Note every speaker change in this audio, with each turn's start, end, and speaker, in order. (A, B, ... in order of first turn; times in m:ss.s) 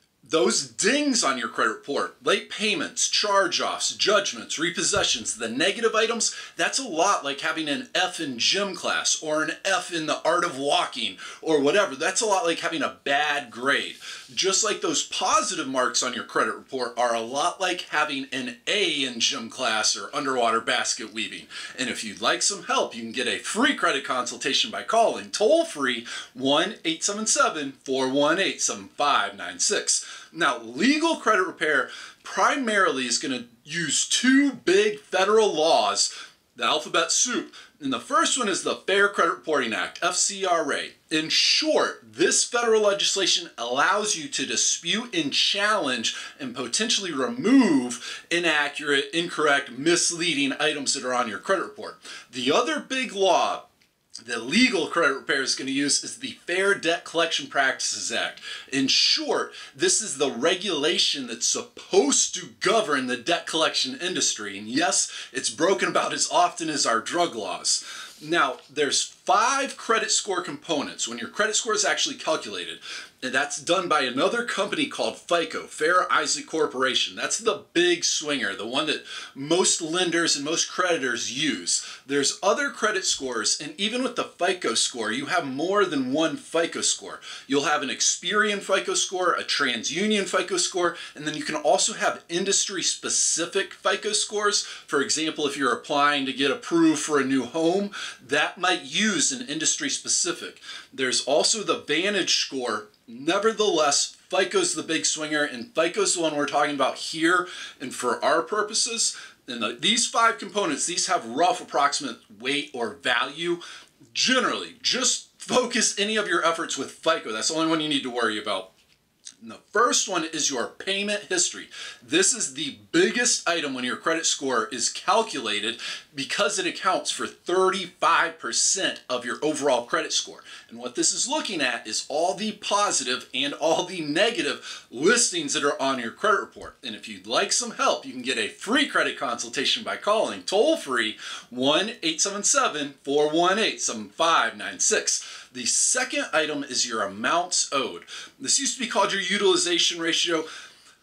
0:00.2-0:53.7 A
0:54.2-1:58.7 A
1:59.4-2:30.5 A